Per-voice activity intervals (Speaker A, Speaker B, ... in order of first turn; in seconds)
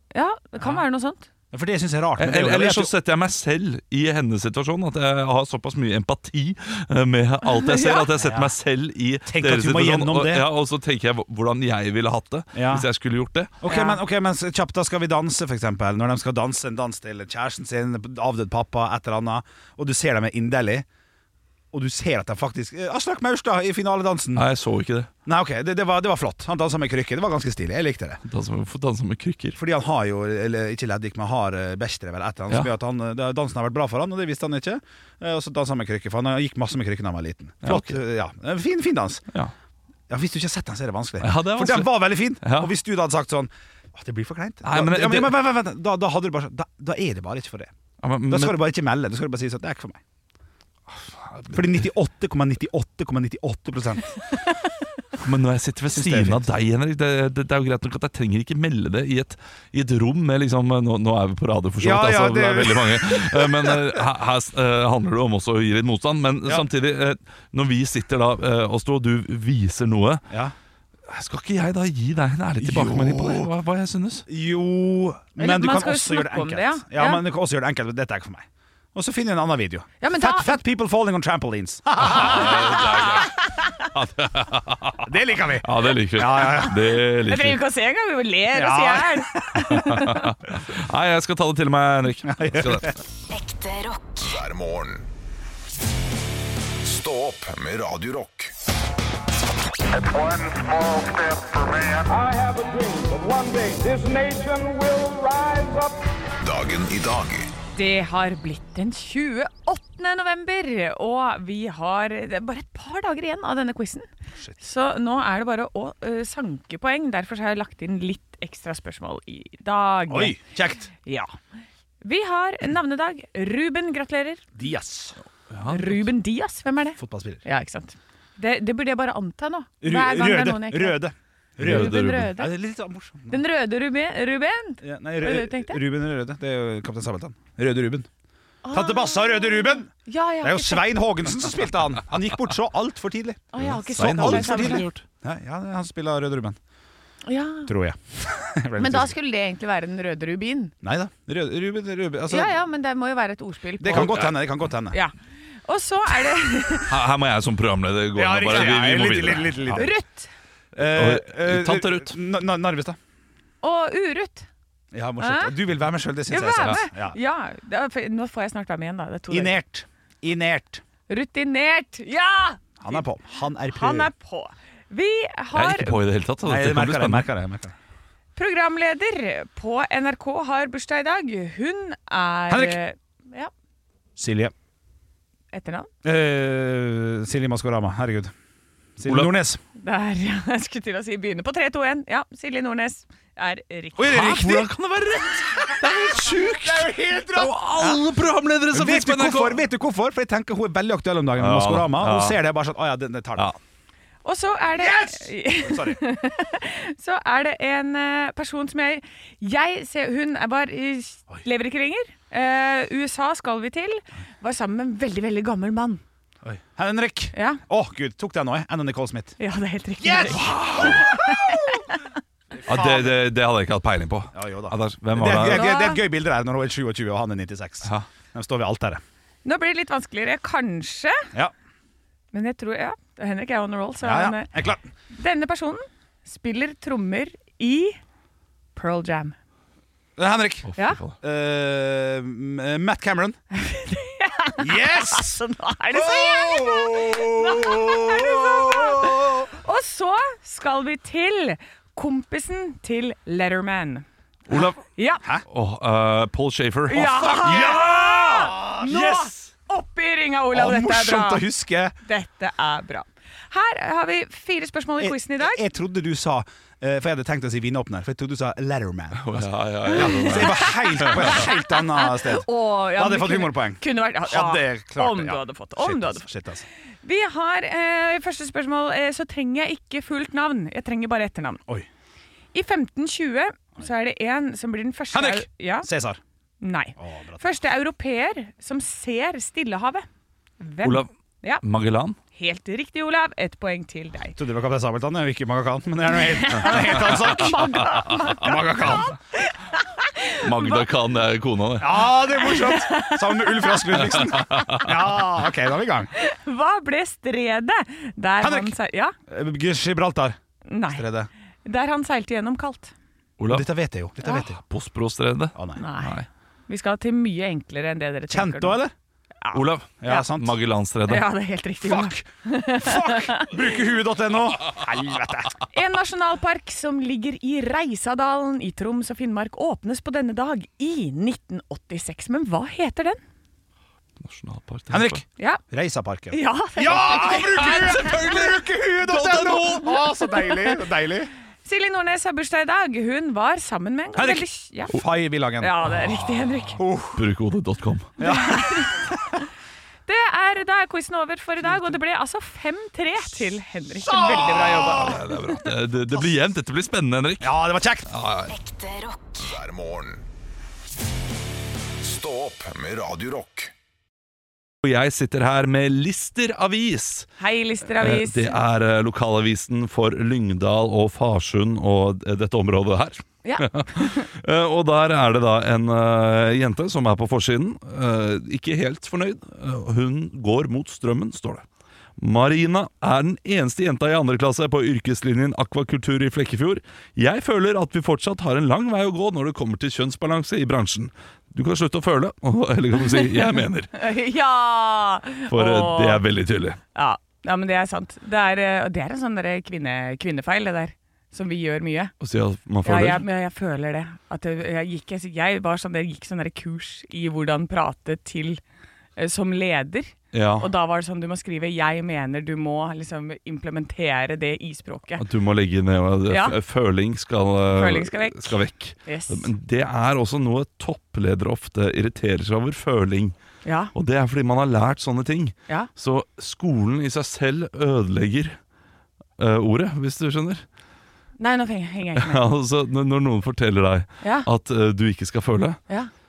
Speaker A: 0.1-1.3, 7.5-8.1, 13.7-14.0, 75.4-77.2, 80.0-80.6, 82.5-83.7, 87.2-90.3, 107.8-114.1, 114.6-120.4, 121.0-121.3, 122.0-124.4, 125.7-131.0, 131.6-132.5, 133.3-135.8, 138.6-140.9, 143.5-144.9, 147.2-147.7, 148.8-150.7, 152.3-154.3, 155.7-156.9, 159.8-160.3, 163.6-164.5, 165.2-165.6, 166.3-169.6, 171.1-173.0, 173.7-176.0, 178.4-183.5, 185.5-185.9, 189.8-194.7, 204.2-216.0, 217.3-217.6, 219.4-222.0, 225.5-226.0, 229.4-231.3, 232.3-234.5, 235.1-238.0, 238.8-239.3, 243.5-254.1, 255.0-255.2, 256.9-261.5, 262.0-265.6, 269.9-276.3, 277.0-281.6, 282.5-285.9, 286.6-290.1, 290.6-291.6, 292.3-294.4, 296.3-300.9, 302.4-304.0, 306.2-309.1, 310.7-311.1, 311.6-312.9, 315.8-318.8, 319.4-320.2, 321.1-323.5, 325.7-333.2, 336.3-338.1, 341.6-345.0, 345.6-346.8, 348.2-349.2, 350.1-355.2, 367.4-368.6, 373.4-374.3, 393.1-396.2, 396.9-402.1, 402.8-408.6, 409.2-415.2, 416.3-416.6, 417.7-419.5, 423.6-423.9, 431.4-432.4, 434.2-434.5
Speaker B: 1.5-2.9, 8.1-8.5, 9.3-10.5, 12.6-12.8, 13.6-20.9, 21.7-24.4, 25.3-28.2, 29.6-39.2, 40.1-47.7, 48.3-50.0, 51.5-54.2, 55.9-56.4, 61.8-64.0, 72.6-73.5, 74.3-83.2, 85.0-87.0, 88.5-89.3, 92.3-93.0, 120.1-120.9, 124.5-125.2, 127.0-127.4, 129.8-133.4, 134.8-138.1, 138.7-146.6, 147.7-149.2, 150.8-152.6, 153.8-155.0, 158.2-159.9, 160.8-163.0, 164.9-167.2, 169.3-170.8, 172.8-174.1, 176.4-177.8, 182.5-182.8, 184.2-184.5, 186.0-188.3, 189.0-189.6, 194.0-194.7, 196.1-198.0, 198.7-203.5, 204.8-206.0, 216.4-219.4, 220.0-221.8, 222.6-223.2, 224.3-229.0, 234.0-234.8, 240.2-243.4, 244.6-249.5, 256.9-259.4, 260.5-261.9, 265.0-276.7, 285.1-286.2, 287.0-287.4, 294.4-299.1, 301.8-306.1, 308.4-308.8, 309.3-310.4, 310.9-311.3, 313.5-314.6, 315.6-315.8, 318.3-318.9, 320.0-320.5, 321.8-322.2, 322.8-325.6, 334.9-341.3, 344.1-345.8, 346.8-347.2, 348.2-349.1, 354.0-355.2, 357.4-358.1
Speaker C: 2.2-13.5, 24.4-25.1, 28.3-29.6, 37.6-38.0, 41.2-42.7, 44.6-45.4, 48.0-48.6, 50.9-51.8, 55.2-70.2, 71.1-74.3, 82.0-85.0, 85.6-87.6, 89.7-93.0, 125.5-126.0, 131.6-132.3, 143.6-145.0, 153.9-154.3, 156.9-159.9, 160.8-162.2, 175.5-177.3, 189.1-189.3, 194.0-199.6, 201.4-202.4, 220.3-221.1, 222.7-225.7, 240.7-241.2, 254.5-254.8, 255.5-257.7, 269.2-271.3, 290.8-291.1, 291.6-292.2, 300.4-302.1, 304.3-304.9, 313.4-313.7, 314.4-316.3, 319.5-321.3, 334.2-335.2, 336.9-340.0, 347.1-348.1, 354.8-357.5, 358.1-358.5, 364.8-367.3, 367.9-381.6, 382.2-393.9, 395.5-396.8, 402.2-403.2, 410.3-410.7, 415.2-423.4, 423.9-428.6, 429.4-430.6, 432.2-435.8
Speaker D: 93.3-94.2, 358.5-359.5
Speaker E: 94.2-95.1, 96.8-98.5, 106.4-107.5, 359.4-360.2, 362.0-363.7
Speaker F: 100.0-106.1